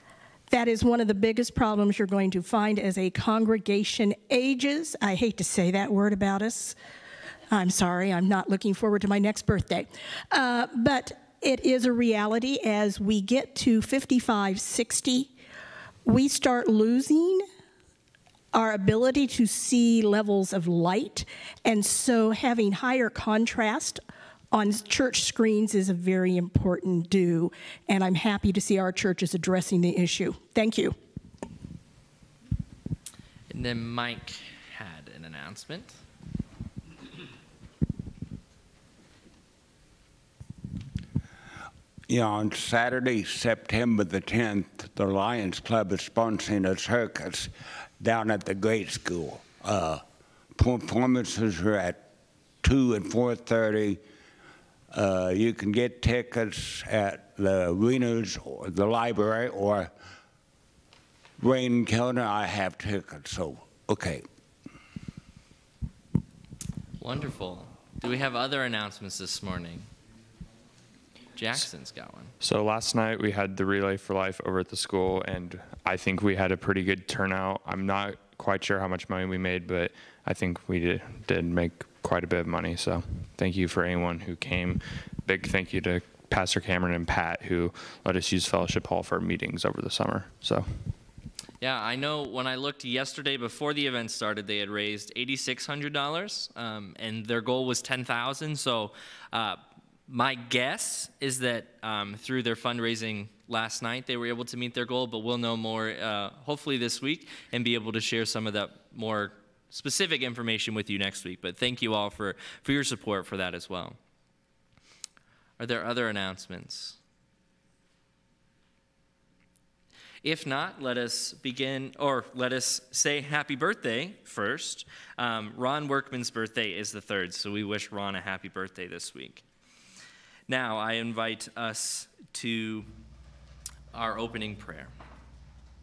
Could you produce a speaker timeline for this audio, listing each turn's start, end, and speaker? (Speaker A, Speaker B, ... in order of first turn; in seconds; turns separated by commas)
Speaker A: 0.5-6.8, Speaker A: 7.5-15.3, Speaker A: 16.1-17.5, Speaker A: 18.5-24.0, Speaker A: 24.5-30.9, Speaker B: 33.5-36.0, Speaker C: 42.1-50.0, Speaker C: 50.5-52.0, Speaker C: 52.6-54.0, Speaker C: 54.9-59.9, Speaker C: 61.4-64.2, Speaker B: 67.0-69.9, Speaker B: 71.4-72.3, Speaker D: 72.4-90.7, Speaker B: 91.6-114.0, Speaker B: 115.6-117.0, Speaker B: 120.2-129.4, Speaker B: 130.5-132.9, Speaker B: 133.9-134.9